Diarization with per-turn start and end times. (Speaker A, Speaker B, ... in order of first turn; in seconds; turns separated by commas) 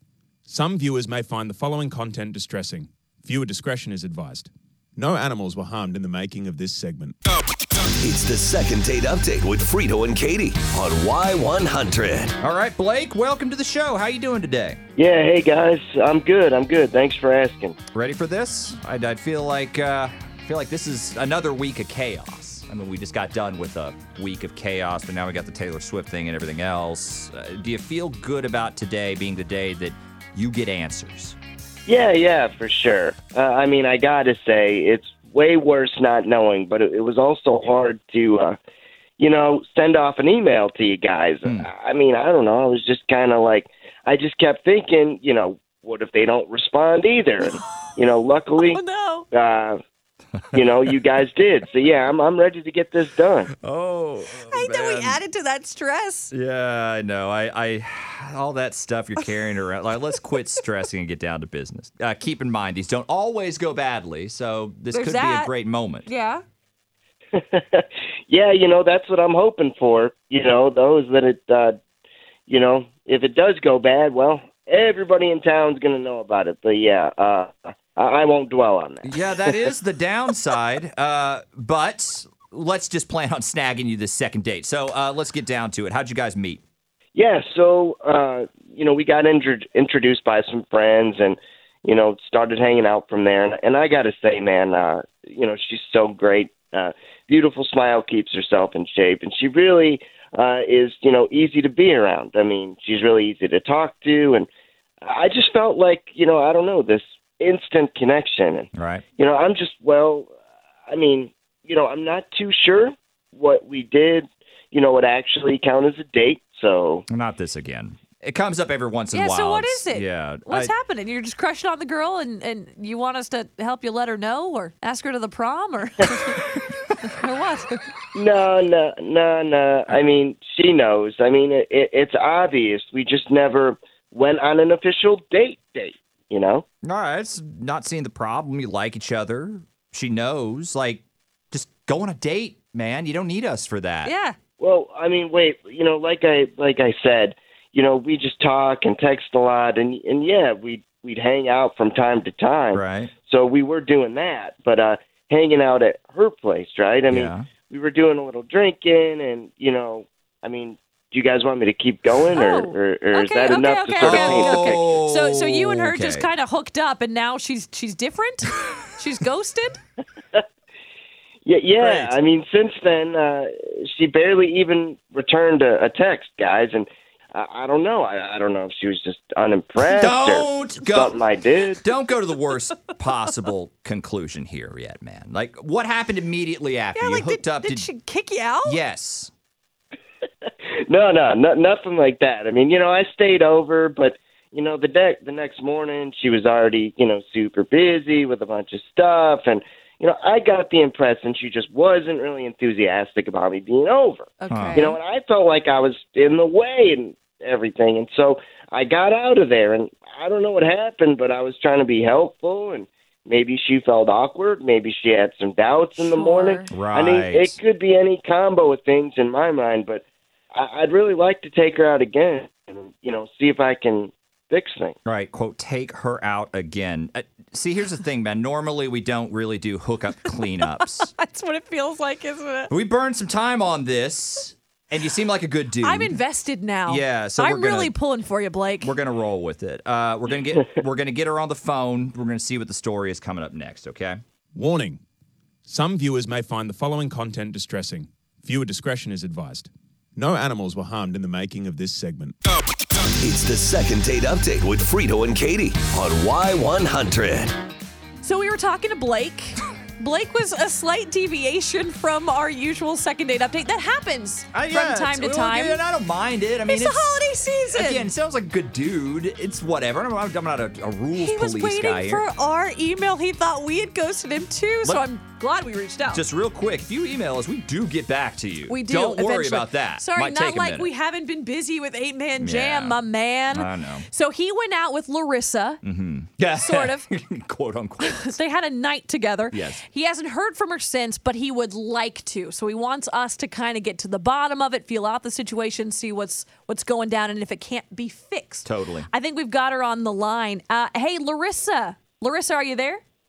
Speaker A: 0.5-7.2, Speaker B: 8.0-12.3, Speaker A: 10.3-10.6, Speaker C: 12.4-14.8, Speaker D: 15.0-17.8, Speaker C: 17.9-31.4, Speaker D: 31.9-38.6, Speaker D: 39.2-48.8, Speaker E: 48.6-49.2, Speaker D: 49.3-49.8, Speaker D: 50.5-53.5, Speaker C: 53.5-55.2, Speaker E: 54.5-56.3, Speaker C: 56.3-66.0, Speaker E: 64.9-65.5, Speaker E: 66.0-66.4, Speaker D: 67.3-71.8, Speaker D: 72.5-79.7, Speaker C: 79.0-86.6, Speaker D: 87.1-104.5, Speaker D: 105.0-110.3, Speaker C: 108.7-109.0, Speaker D: 110.9-117.0, Speaker C: 117.1-120.7, Speaker E: 119.1-126.4, Speaker E: 127.0-127.8, Speaker D: 128.1-136.6, Speaker C: 136.8-144.1, Speaker E: 144.0-144.3, Speaker D: 144.6-165.0, Speaker C: 152.7-153.1, Speaker C: 157.1-157.5, Speaker E: 162.3-169.8, Speaker C: 164.0-166.3, Speaker D: 171.4-181.8, Speaker C: 171.8-172.1, Speaker C: 179.8-181.2, Speaker C: 181.8-187.9, Speaker E: 186.9-188.8, Speaker C: 188.6-189.3, Speaker D: 190.4-225.0, Speaker E: 204.4-205.0, Speaker C: 204.5-204.8, Speaker E: 215.9-216.7, Speaker C: 216.7-217.6, Speaker C: 225.0-231.1, Speaker E: 230.4-232.7, Speaker C: 232.7-236.2, Speaker E: 235.8-238.9, Speaker C: 236.8-238.0, Speaker C: 238.8-244.2, Speaker A: 244.5-245.0, Speaker A: 245.6-252.4, Speaker B: 253.2-257.5, Speaker A: 255.3-255.8, Speaker A: 256.8-257.0, Speaker E: 258.2-265.8, Speaker C: 264.5-267.1, Speaker E: 266.7-268.1, Speaker C: 267.7-272.2, Speaker E: 271.1-276.2, Speaker C: 276.1-280.9, Speaker E: 278.7-285.8, Speaker C: 282.4-284.1, Speaker C: 285.8-288.3, Speaker E: 286.6-287.1, Speaker E: 288.0-303.0, Speaker C: 289.5-289.8, Speaker C: 298.6-299.1